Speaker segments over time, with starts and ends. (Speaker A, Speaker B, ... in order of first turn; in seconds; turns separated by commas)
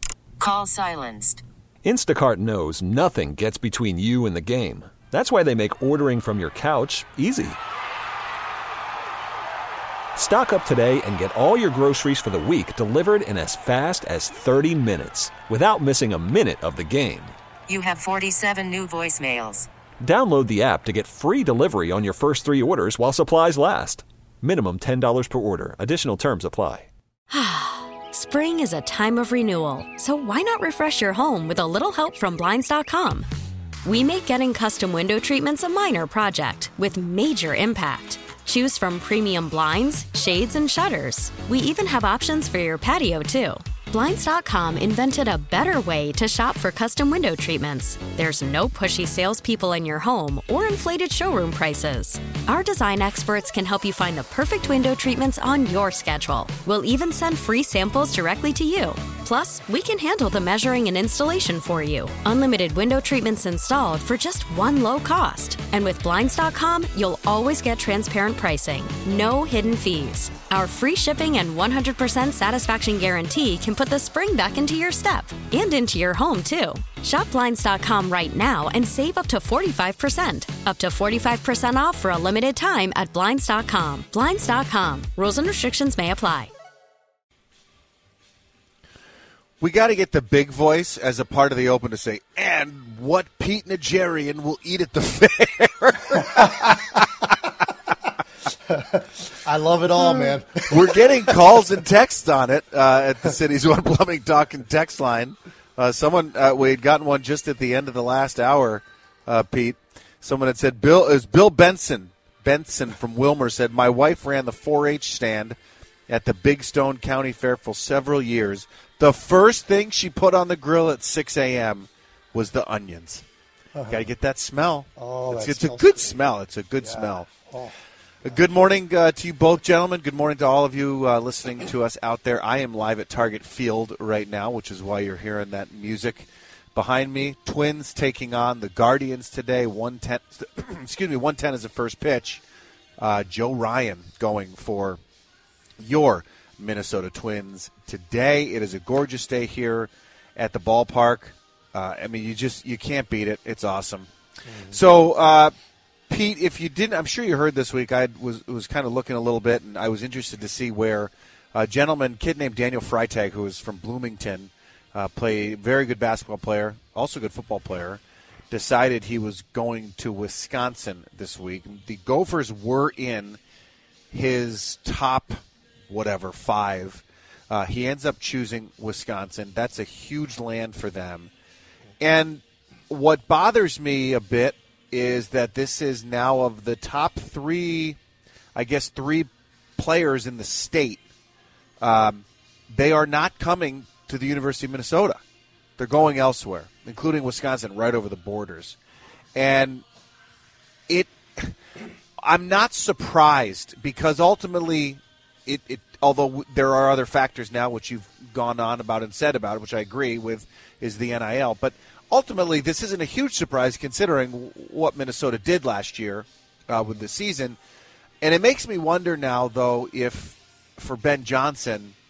Speaker A: 0.4-1.4, Speaker B: 1.8-7.6, Speaker B: 10.1-17.3, Speaker A: 17.7-19.7, Speaker B: 20.0-26.9, Speaker C: 27.3-33.3, Speaker C: 33.8-86.5, Speaker D: 89.6-97.1, Speaker E: 96.4-96.7, Speaker E: 98.7-101.0, Speaker D: 100.2-115.5, Speaker D: 116.1-123.2, Speaker E: 123.7-124.1, Speaker D: 123.9-127.3, Speaker E: 125.0-126.1, Speaker E: 126.8-127.7, Speaker D: 128.2-142.4, Speaker D: 143.0-145.0, Speaker D: 145.8-154.1, Speaker E: 154.4-154.8, Speaker D: 154.7-155.5, Speaker D: 156.1-168.0, Speaker D: 168.5-173.4, Speaker D: 174.1-181.3, Speaker D: 182.0-188.0, Speaker D: 188.5-191.0, Speaker D: 191.8-195.2, Speaker D: 195.8-198.8, Speaker D: 199.3-199.8, Speaker D: 200.9-201.5, Speaker D: 202.2-217.6, Speaker D: 218.2-221.9